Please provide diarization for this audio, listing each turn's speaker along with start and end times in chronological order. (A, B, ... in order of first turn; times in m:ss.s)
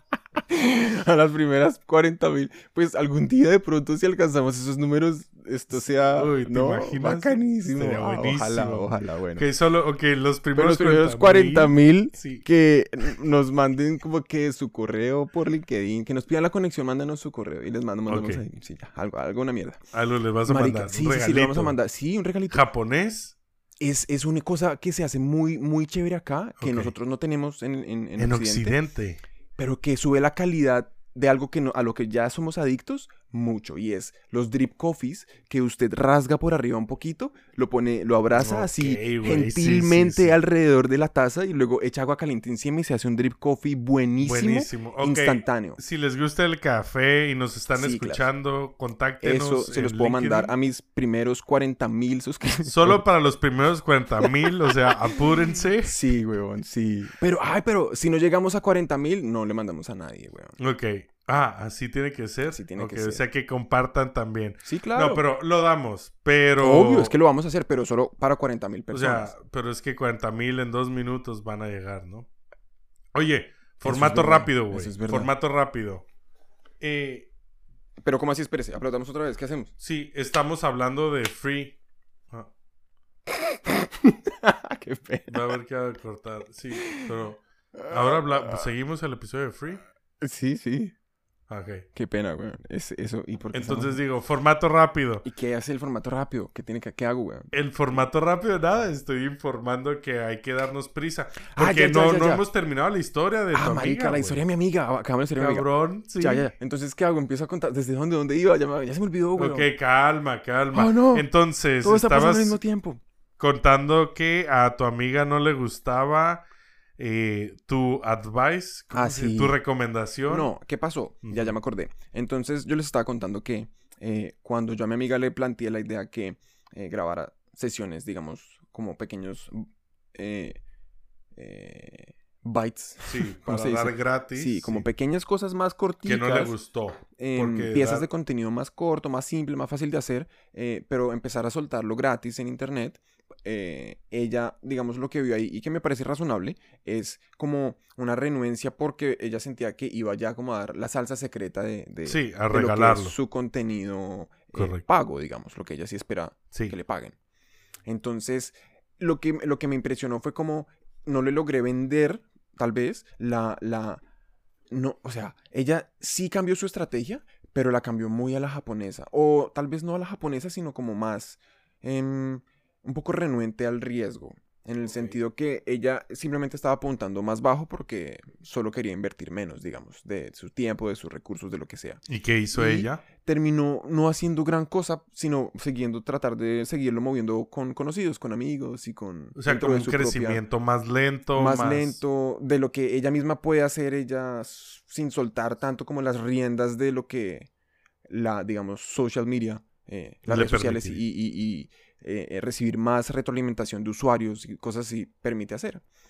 0:00.5-0:09.5 A
0:06.1-0:12.4 B
0:10.5-0:19.8 A
0:18.1-0:18.4 B
0:19.9-0:21.8 B
0:20.5-0:22.6 A
0:22.5-0:23.4 B
0:23.8-0:28.8 A
0:26.6-0:26.9 B
0:28.2-0:29.2 B
0:29.6-0:45.8 A
0:38.3-0:40.3 B
0:44.2-0:50.5 B
0:47.7-0:48.3 A
0:49.2-0:53.0 A
0:52.6-0:56.0 B
0:54.2-0:55.2 A
0:55.8-1:00.6 A
1:00.6-1:07.1 B
1:02.5-1:03.2 A
1:04.6-1:05.2 A
1:06.6-1:09.3 A
1:08.9-1:12.3 B
1:13.1-1:16.0 B
1:13.8-1:15.3 A
1:16.8-1:17.3 B
1:18.0-1:19.7 A
1:19.8-1:21.8 B
1:23.3-1:25.5 A
1:25.3-1:29.8 B
1:26.7-1:27.1 A
1:27.8-1:28.7 A
1:30.2-1:30.9 A
1:31.5-1:31.8 B
1:31.9-1:34.0 A
1:33.5-1:35.2 B
1:35.2-1:37.5 A
1:37.5-1:44.4 B
1:41.5-1:42.4 A
1:43.5-1:49.7 A
1:45.4-1:46.5 B
1:49.4-1:52.6 B
1:50.7-1:53.0 A
1:53.4-1:56.4 B
1:57.0-2:00.5 B
1:58.9-1:59.6 A
2:00.3-2:10.6 A
2:01.2-2:01.5 B
2:11.3-2:16.6 A
2:13.0-2:14.9 B
2:16.0-2:18.1 B
2:17.1-2:37.2 A
2:32.0-2:33.1 B
2:34.5-2:34.8 B
2:36.5-2:36.8 B
2:37.8-2:44.0 A
2:44.7-3:02.0 A
3:02.1-3:03.0 B
3:02.5-3:10.4 A
3:09.4-3:12.0 B
3:11.3-3:17.5 A
3:18.1-3:25.8 A
3:20.3-3:21.0 B